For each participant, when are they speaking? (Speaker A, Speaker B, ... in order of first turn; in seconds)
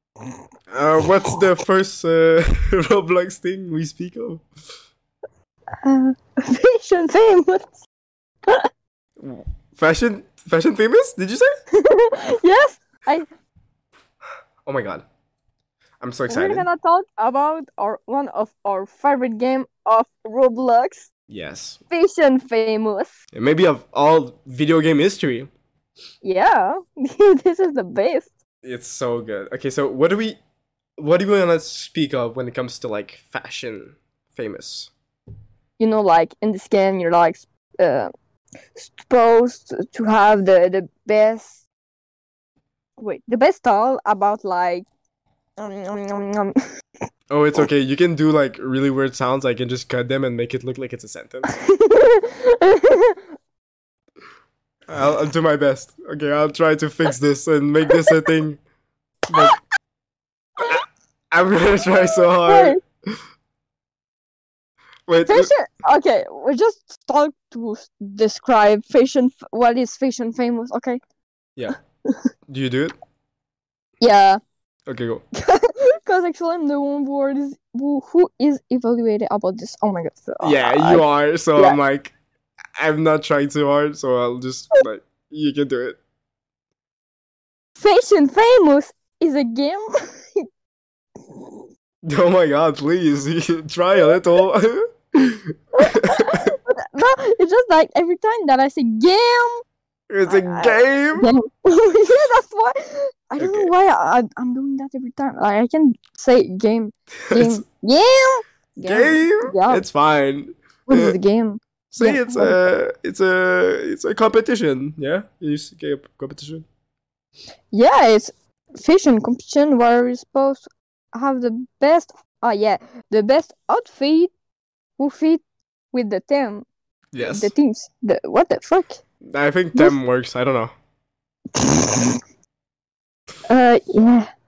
Speaker A: 0.7-4.4, 9.2-11.5, 14.6-15.0, 16.0-16.7, 21.3-21.8, 23.3-25.5, 28.6-30.4, 31.0-34.9, 47.3-51.5, 54.9-58.6, 59.3-59.5, 60.6-62.8, 65.1-65.5, 72.5-73.0, 74.9-75.2, 80.4-82.1, 82.8-86.0, 92.0-96.5, 100.1-101.3, 103.4-103.7, 107.3-107.6, 108.8-111.2, 111.9-116.7, 127.1-127.5, 129.3-130.7
Speaker B: 5.8-7.8, 11.8-13.3, 16.3-21.1, 21.9-23.1, 26.2-28.3, 35.8-38.1, 38.7-41.6, 43.0-44.9, 45.6-46.5, 51.5-53.2, 62.5-62.8, 65.3-71.0, 74.0-74.4, 75.4-81.0, 87.8-89.8, 95.8-99.6, 100.2-109.8, 110.9-112.7, 117.7-124.3, 125.0-126.7, 127.2-129.0, 131.6-132.1, 133.5-134.3